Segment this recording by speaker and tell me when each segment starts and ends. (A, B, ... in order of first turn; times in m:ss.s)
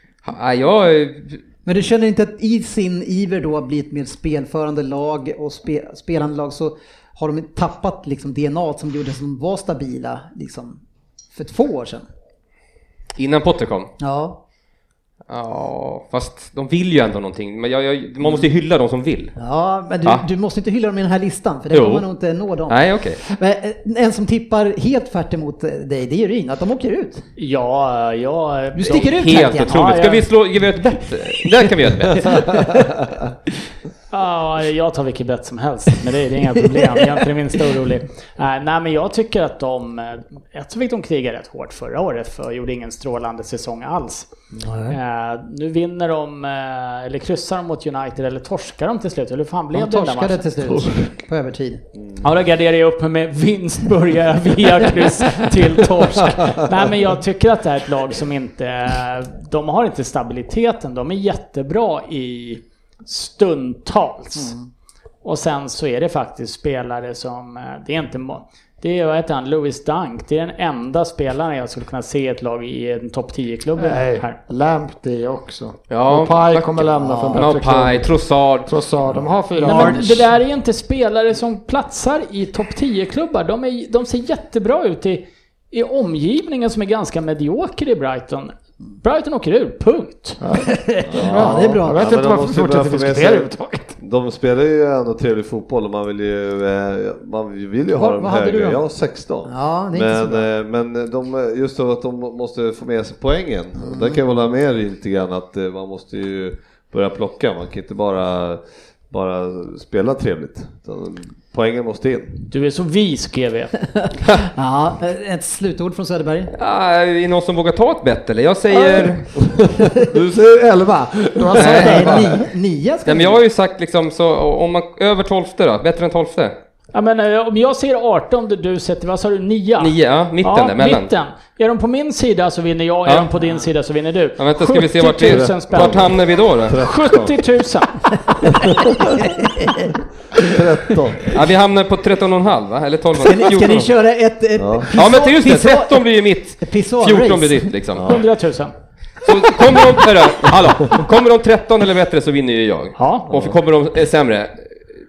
0:00.2-0:01.4 A
0:01.6-0:10.8 B
0:11.3-0:12.0 B
0:13.2-0:13.9 A
0:14.0-0:14.4 B
0:15.3-0:19.3 A
0:19.4-0:27.2 B
0:21.7-0:22.0 A
0:22.7-0:23.2 A
0:27.4-0:30.2 C
0:28.7-0:29.7 B
0:29.1-0:32.4 A
0:32.2-0:32.8 B
0:34.1-0:44.3 C
0:44.6-0:44.9 B
0:44.9-0:50.5 C
0:49.7-0:51.8 B
0:52.2-1:04.5 C
0:56.3-0:56.5 D
1:04.3-1:04.7 B
1:05.2-1:14.4 C
1:13.8-1:18.1 E
1:15.9-1:18.7 A
1:17.0-1:17.4 B
1:18.6-1:20.2 E
1:19.6-1:30.4 C
1:19.7-1:20.0 B
1:30.4-1:34.0 E
1:30.6-1:32.0 B
1:31.1-1:52.4 D
1:37.9-1:38.8 B
1:39.4-1:40.4 B
1:43.8-1:44.2 B
1:52.5-1:53.7 C
1:54.1-1:56.5 B
1:56.6-1:59.3 A
1:59.4-2:02.4 D
2:01.5-2:03.4 B
2:01.6-2:02.3 A
2:01.6-2:02.2 E
2:03.0-2:06.5 A
2:06.9-2:16.1 C
2:09.8-2:11.1 A
2:14.4-2:16.8 A
2:15.3-2:17.4 D
2:16.8-2:17.9 C
2:19.1-2:19.9 B
2:20.5-2:21.3 D
2:21.3-2:23.9 A
2:23.2-2:26.1 B
2:24.6-2:25.0 D
2:25.0-2:28.1 A
2:26.6-2:27.7 B
2:28.0-2:28.2 D
2:28.0-2:28.7 C
2:29.2-2:34.7 A
2:33.0-2:33.2 C